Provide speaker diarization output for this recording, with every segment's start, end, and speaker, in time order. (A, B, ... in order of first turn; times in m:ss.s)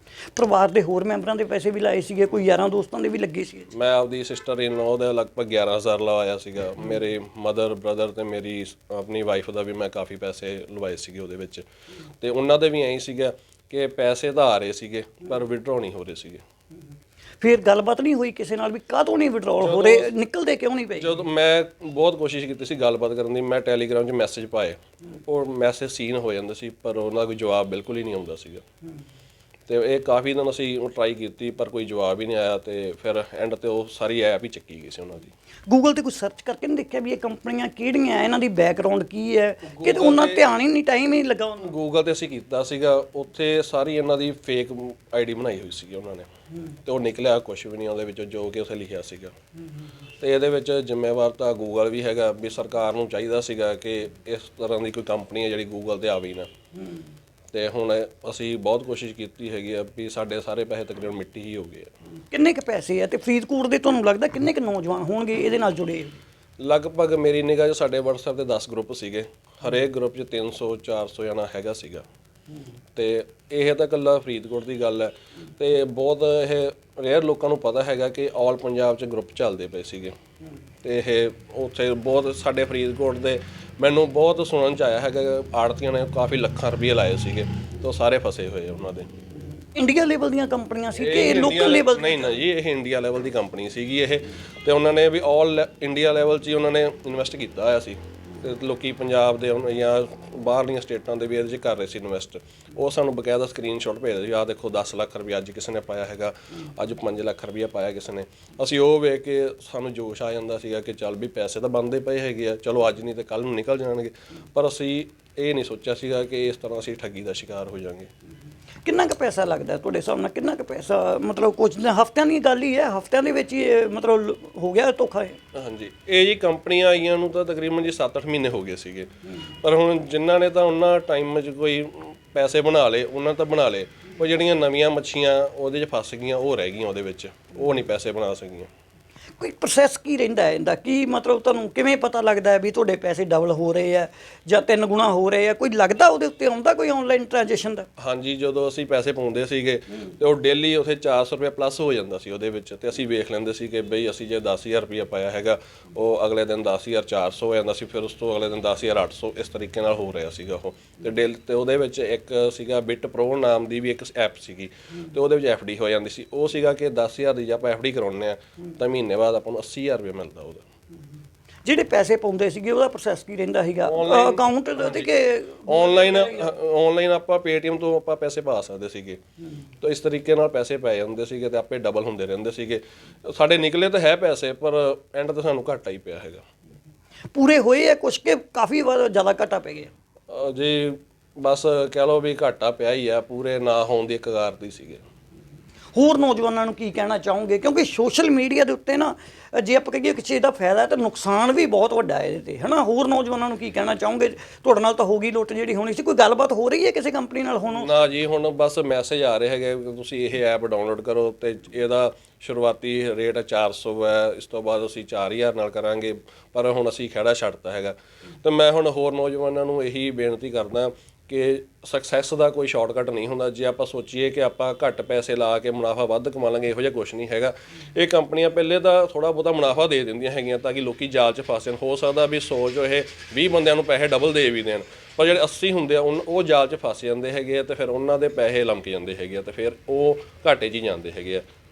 0:00.4-0:03.7 A
0:03.7-0:11.6 B
0:12.2-0:16.4 B
0:17.4-0:21.1 A
0:19.6-0:20.1 B
0:21.0-0:28.6 B
0:29.7-0:35.3 B
0:35.7-0:41.7 A
0:39.7-0:40.4 B
0:41.6-0:46.3 B
0:46.8-0:49.3 B
0:50.2-0:56.5 B
0:57.5-1:01.9 B
1:02.3-1:06.2 A
1:06.6-1:12.1 B
1:13.0-1:20.2 B
1:20.8-1:29.1 B
1:29.8-1:32.3 A
1:31.0-1:58.1 B
1:58.8-2:05.4 A
2:05.5-2:09.1 B
2:09.6-2:18.7 B
2:19.4-2:27.9 A
2:28.0-2:50.6 B
2:51.6-2:56.5 A
2:53.8-2:59.2 B
2:59.8-3:06.4 B
3:07.3-3:09.9 A
3:10.3-3:15.0 B
3:16.0-3:28.0 A
3:27.8-4:01.4 B